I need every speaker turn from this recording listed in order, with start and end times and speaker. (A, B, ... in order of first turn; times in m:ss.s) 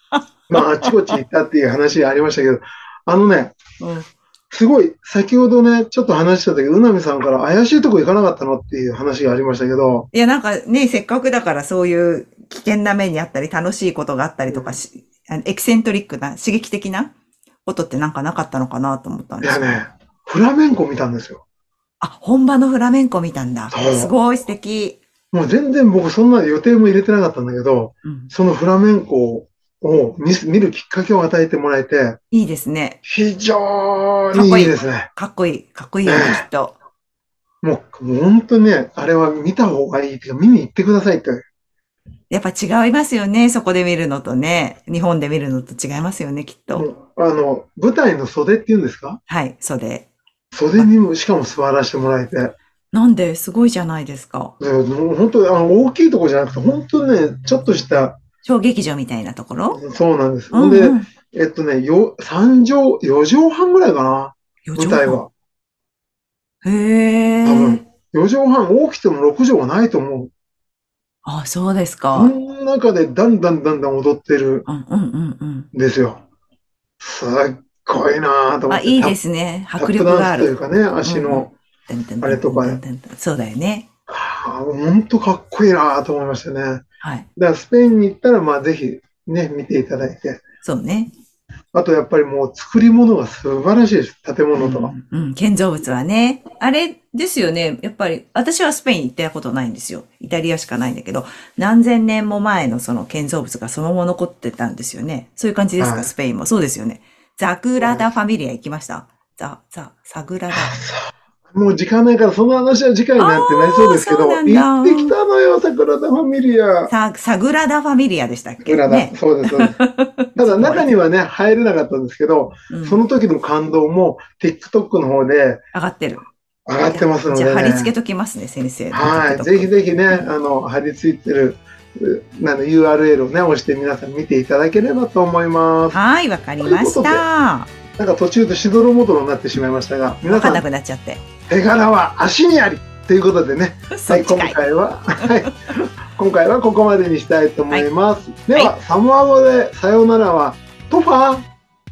0:00.1-0:00.9 A
0:00.5-0:03.6 B
0:03.8-0:04.1 A
0:04.5-0:10.1 B
0:10.1-0:17.1 A
0:14.5-0:14.8 B
0:17.7-0:19.8 A
0:19.4-0:21.4 B
0:22.0-0:25.0 A
0:23.7-0:24.1 B
0:25.3-0:32.2 B
0:28.0-0:28.3 A
0:32.3-0:33.0 A
0:33.0-0:35.1 B
0:34.3-0:36.8 A
0:36.0-0:36.4 B
0:37.6-0:41.4 B
0:42.3-0:46.9 A
0:46.7-0:49.2 B
0:49.3-0:50.1 A
0:50.5-0:52.6 B
0:52.9-0:54.5 A
0:54.6-0:58.2 B
0:58.4-0:59.8 A
0:59.7-1:05.3 B
1:00.5-1:01.1 A
1:04.6-1:05.2 A
1:06.6-1:07.8 A
1:07.4-1:10.3 B
1:11.2-1:12.3 A
1:12.1-1:14.7 B
1:14.7-1:15.7 A
1:15.7-1:16.2 B
1:17.0-1:19.2 B
1:18.7-1:20.5 A
1:19.8-1:21.5 B
1:21.0-1:23.8 A
1:22.2-1:22.8 B
1:24.1-1:26.8 B
1:27.0-1:27.3 A
1:27.4-1:30.4 B
1:30.6-1:31.1 A
1:31.7-1:34.9 B
1:34.6-1:50.7 A
1:45.8-1:46.1 B
1:47.8-1:48.1 B
1:50.5-1:56.9 B
1:53.2-1:55.1 A
1:56.9-2:00.9 A
1:58.6-1:59.8 B
2:00.4-2:05.6 B
2:02.7-2:03.0 A
2:05.7-2:06.2 A
2:06.7-2:07.9 B
2:06.9-2:10.3 A
2:08.9-2:16.0 B
2:15.9-2:17.7 A
2:16.6-2:17.2 B
2:18.0-2:20.6 B
2:20.3-2:21.2 A
2:21.5-2:25.6 B
2:23.9-2:24.6 A
2:26.1-2:31.4 B